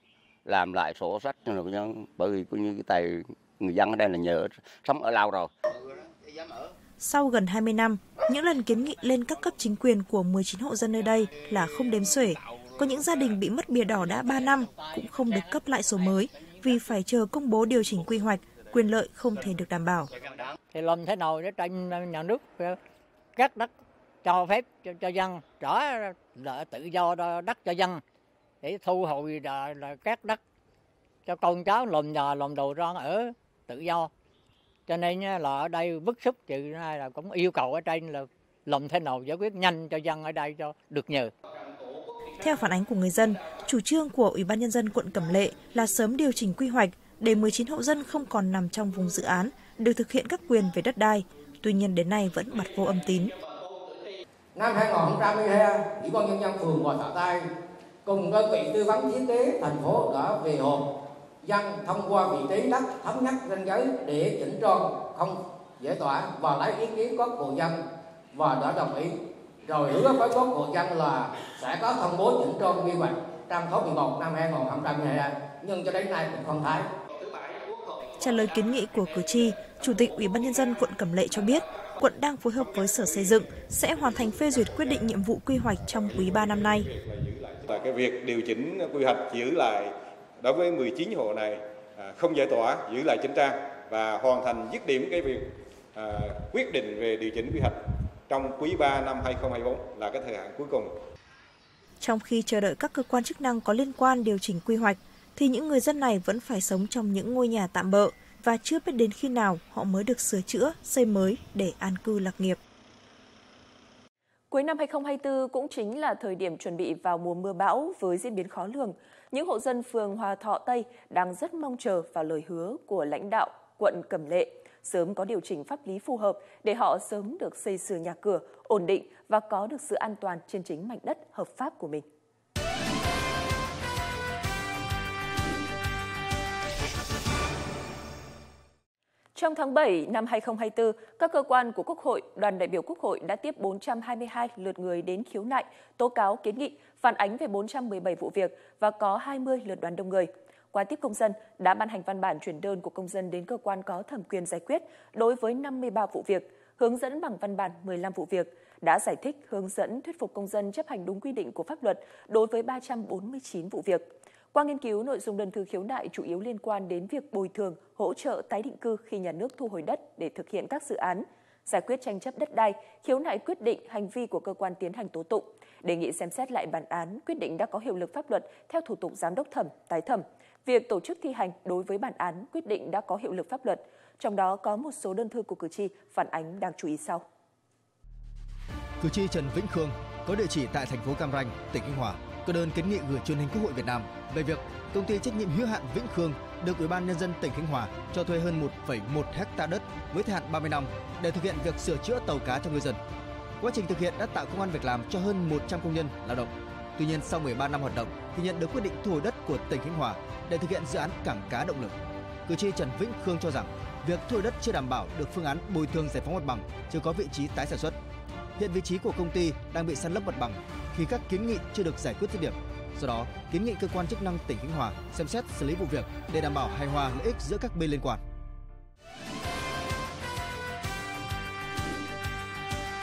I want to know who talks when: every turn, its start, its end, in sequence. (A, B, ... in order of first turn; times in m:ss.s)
0:00.5-0:05.5 A
0:07.0-0:20.1 B
0:20.7-0:22.8 C
0:23.4-0:23.7 C
0:24.2-0:28.0 C
0:28.6-0:30.4 C
0:31.3-0:34.1 C
0:34.9-0:41.3 C
0:42.4-0:53.3 B
0:54.6-0:57.4 D
0:58.1-1:00.8 D
1:01.4-1:07.8 D
1:08.3-1:09.1 D
1:09.7-1:16.8 D
1:18.2-1:26.9 B
1:26.1-1:40.9 E
1:42.0-1:52.6 B
1:54.5-2:12.0 F
2:19.4-3:07.2 F
3:09.0-3:23.0 G
3:23.6-3:31.9 G
3:32.5-3:38.0 G
3:38.6-3:48.2 G